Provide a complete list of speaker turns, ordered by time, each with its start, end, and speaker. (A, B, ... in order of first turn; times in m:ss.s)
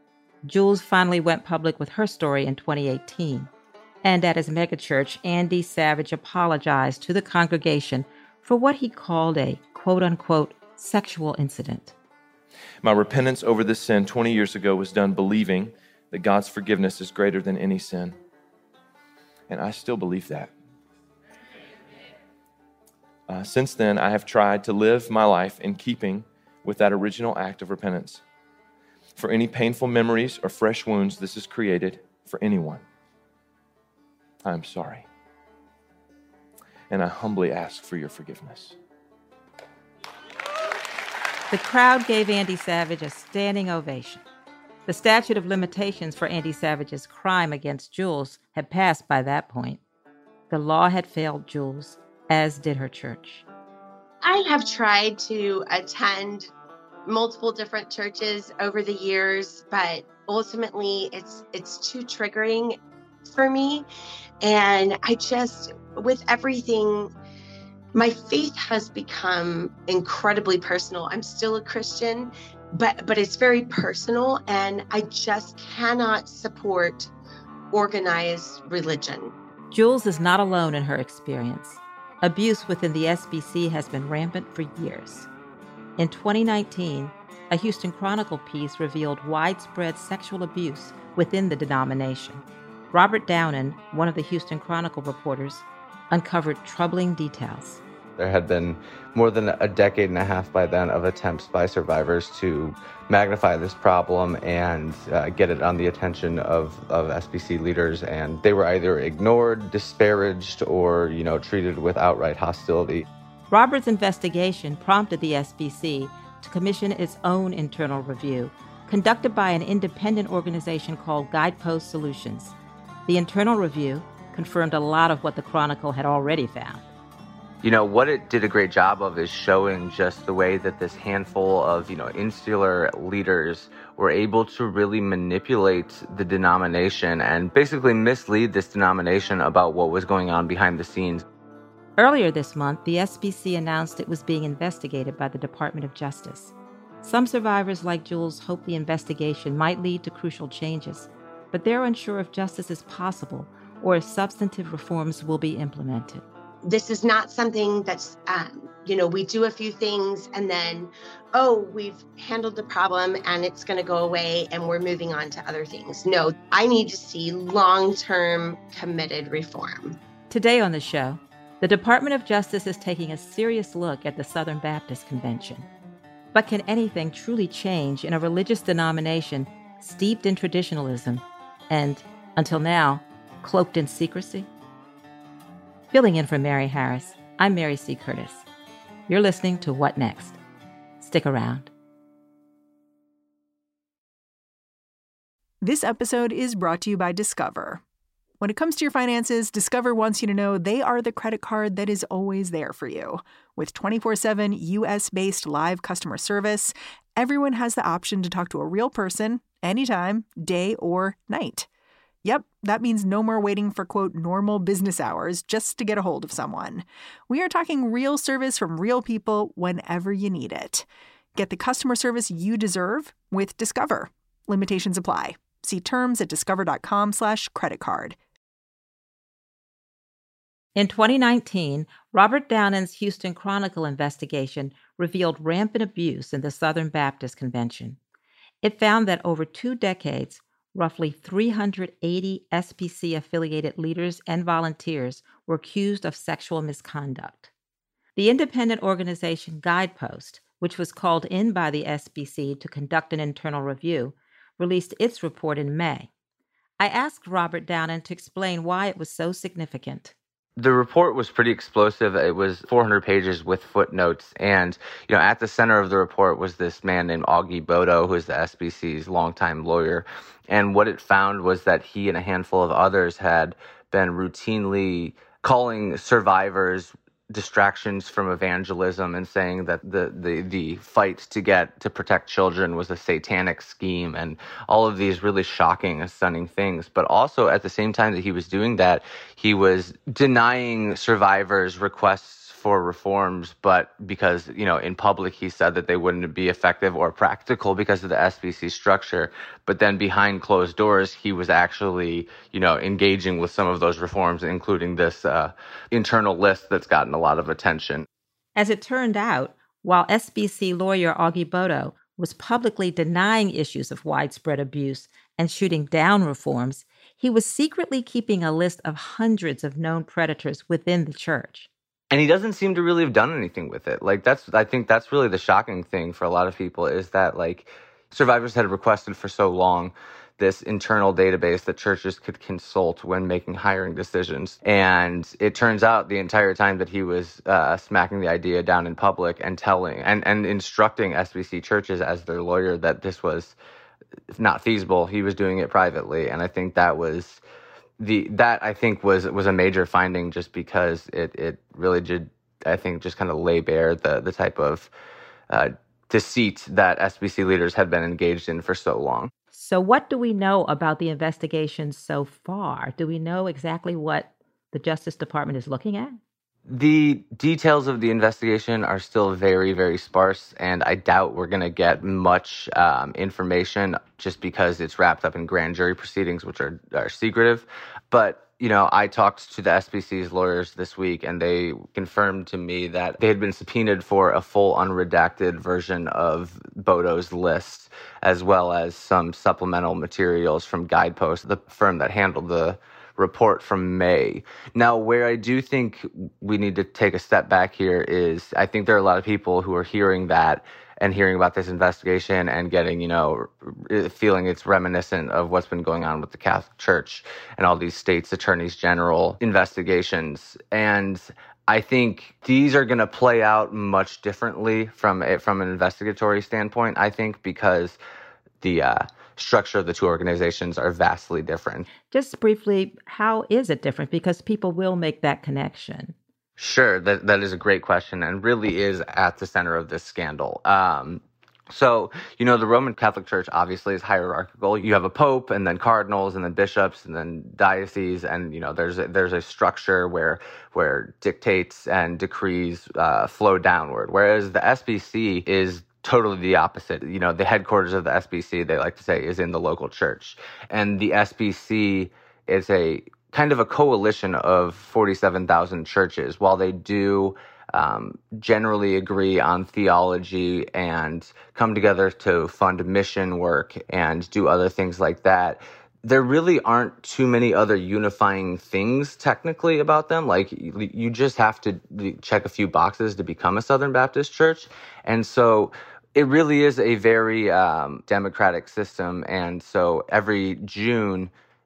0:00.4-0:03.5 A
0:04.0-0:11.9 A
0:12.8-0:18.2 B
0:19.5-0:20.5 B
0:23.3-0:28.2 B
0:29.2-0:32.8 B
0:34.4-0:35.1 B
0:36.9-0:38.8 B
0:41.5-0:44.2 A
0:44.8-0:49.8 A
0:50.5-0:53.4 A
0:54.2-0:56.5 C
0:57.0-1:03.8 C
1:04.4-1:07.1 C
1:07.9-1:17.1 C
1:17.7-1:19.3 C
1:19.7-1:25.3 A
1:26.0-1:32.4 A
1:32.9-1:37.8 A
1:38.2-1:53.1 D
1:53.5-2:02.5 A
2:03.1-2:06.8 A
2:07.6-2:21.2 D
2:22.0-2:36.2 A
2:36.6-2:50.0 C
2:50.3-2:55.7 A
2:56.3-3:04.5 A
3:05.9-3:08.4 A
3:09.1-3:10.4 A
3:11.0-3:11.7 A
3:15.6-3:17.8 E
3:18.4-3:31.7 E
3:32.2-3:48.2 E
3:50.8-3:58.0 A
3:58.6-4:07.5 A
4:08.2-4:16.1 A
4:16.8-4:20.1 A
4:20.6-5:08.0 D
5:08.6-5:21.7 A
5:22.1-5:43.6 D
5:44.3-5:47.4 D
5:48.0-5:54.9 D
5:55.5-5:59.3 D
5:59.5-6:06.2 A
6:06.7-6:58.0 D
6:58.6-7:01.9 D
7:02.1-7:06.1 A
7:06.6-8:01.3 D